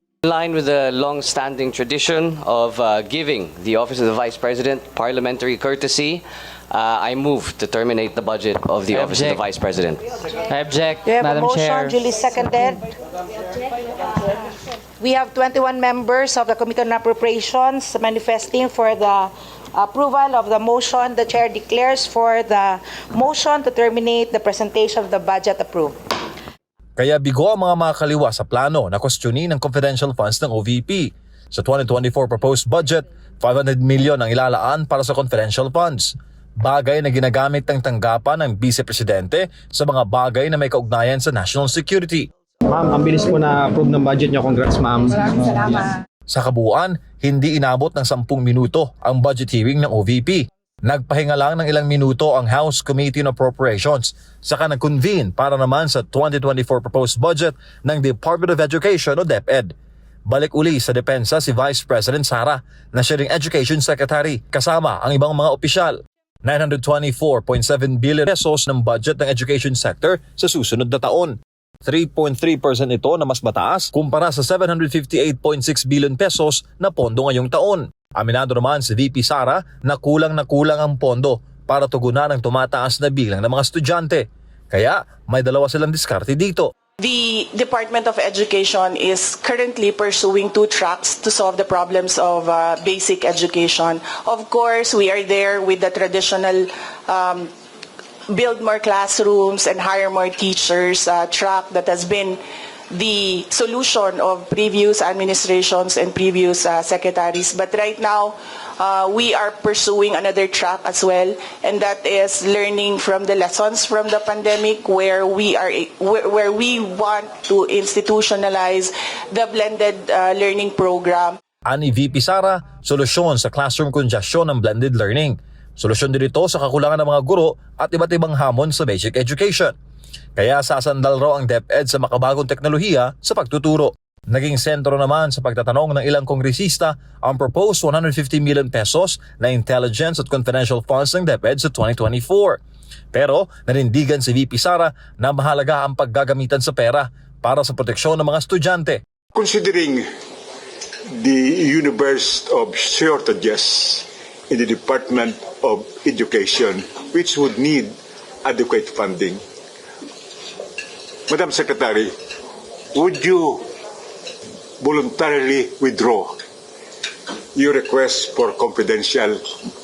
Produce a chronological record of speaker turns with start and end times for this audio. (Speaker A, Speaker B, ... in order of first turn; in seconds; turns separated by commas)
Speaker A: 0.2-10.1, Speaker B: 8.9-9.4, Speaker B: 10.4-12.0, Speaker C: 11.1-12.9, Speaker C: 14.2-26.0, Speaker D: 27.0-42.3, Speaker E: 42.7-45.9, Speaker D: 46.3-59.7, Speaker D: 60.3-86.7, Speaker F: 87.0-97.5, Speaker F: 98.3-102.4, Speaker F: 102.9-121.4, Speaker D: 121.7-129.8, Speaker D: 130.4-142.6, Speaker D: 143.1-149.0, Speaker G: 149.3-150.1, Speaker G: 151.1-159.4, Speaker G: 161.3-162.1, Speaker G: 162.9-163.7, Speaker G: 164.8-166.4, Speaker G: 167.5-169.4